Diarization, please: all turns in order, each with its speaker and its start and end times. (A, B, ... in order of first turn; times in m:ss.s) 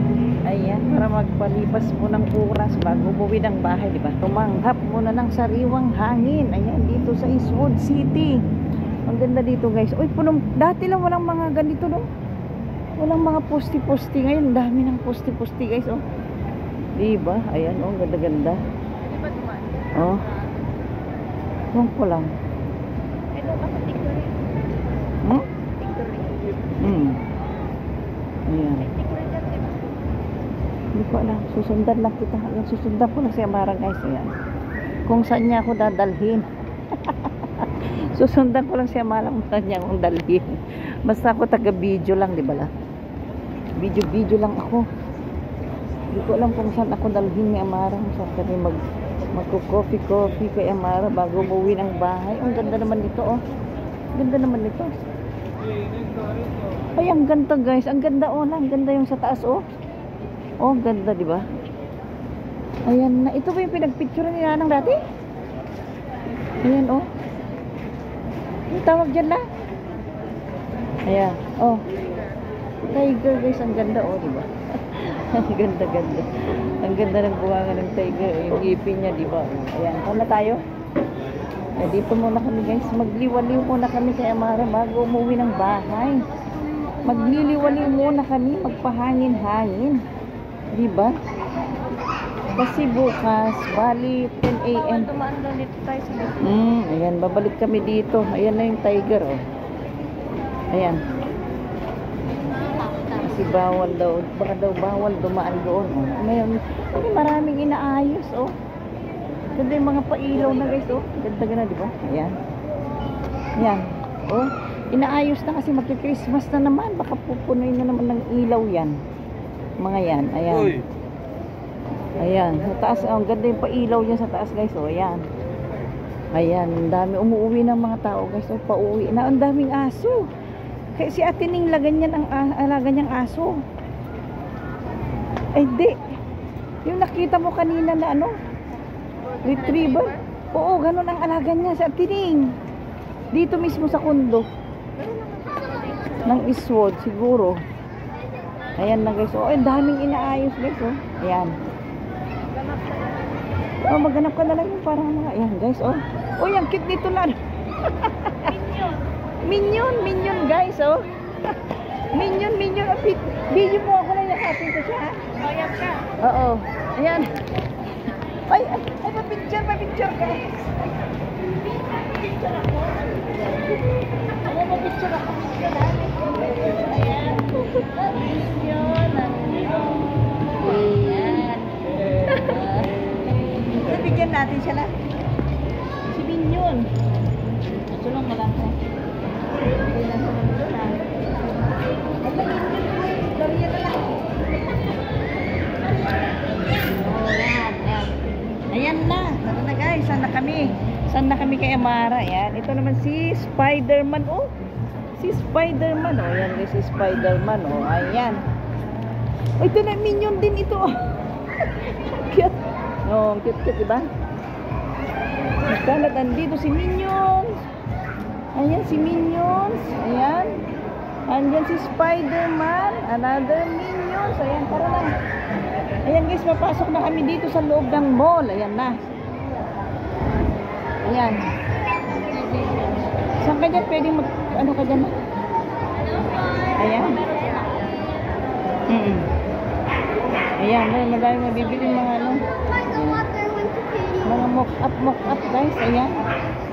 0:00.5-0:08.4 A
0:09.1-0:12.1 A
0:13.0-0:16.0 A
0:17.0-0:18.6 A
0:19.0-0:20.3 B
0:20.0-0:20.3 A
0:21.7-0:22.3 A
0:23.4-0:24.3 B
0:25.8-0:26.4 B
0:26.8-0:27.2 A
0:28.5-0:28.9 A
0:28.9-0:29.8 B
0:31.0-0:34.3 A
0:35.1-0:42.7 A
0:43.8-0:44.9 A
0:46.1-0:48.8 A
0:49.3-0:53.4 A
0:54.2-0:54.9 A
0:57.0-0:59.6 A
1:00.6-1:01.4 A
1:02.9-1:05.0 A
1:06.6-1:07.1 A
1:08.7-1:09.4 A
1:11.1-1:11.8 A
1:12.9-1:20.6 A
1:21.8-1:26.3 A
1:27.0-1:30.0 A
1:30.7-1:31.1 A
1:32.6-1:35.1 A
1:35.1-1:36.4 B
1:36.4-1:39.4 A
1:40.7-1:41.0 A
1:43.2-1:48.5 A
1:49.6-1:52.3 A
1:53.6-1:59.0 A
1:59.8-2:00.8 A
2:02.2-2:05.2 A
2:06.3-2:10.3 A
2:11.0-2:13.6 A
2:15.6-2:16.0 A
2:16.8-2:18.4 A
2:19.4-2:22.5 A
2:23.3-2:24.5 A
2:26.2-2:27.6 A
2:28.8-2:31.5 A
2:33.9-2:38.7 A
2:39.4-2:41.5 A
2:42.1-2:47.3 A
2:48.5-2:50.7 A
2:52.2-2:53.8 A
2:54.4-3:00.0 A
3:00.5-3:02.9 A
3:03.8-3:04.9 A
3:06.1-3:06.9 A
3:07.9-3:08.8 A
3:09.7-3:11.0 A
3:12.2-3:14.1 A
3:16.8-3:18.1 A
3:18.7-3:24.5 A
3:25.2-3:28.4 A
3:29.6-3:31.0 A
3:31.6-3:34.1 A
3:35.6-3:37.6 A
3:38.6-3:40.6 A
3:41.3-3:45.1 A
3:46.0-3:49.0 A
3:51.0-3:51.4 A
3:52.4-3:52.9 B
3:53.4-3:55.1 A
3:56.2-3:57.7 B
3:56.8-3:57.2 A
3:58.9-3:59.2 A
4:00.6-4:03.3 A
4:04.2-4:06.1 A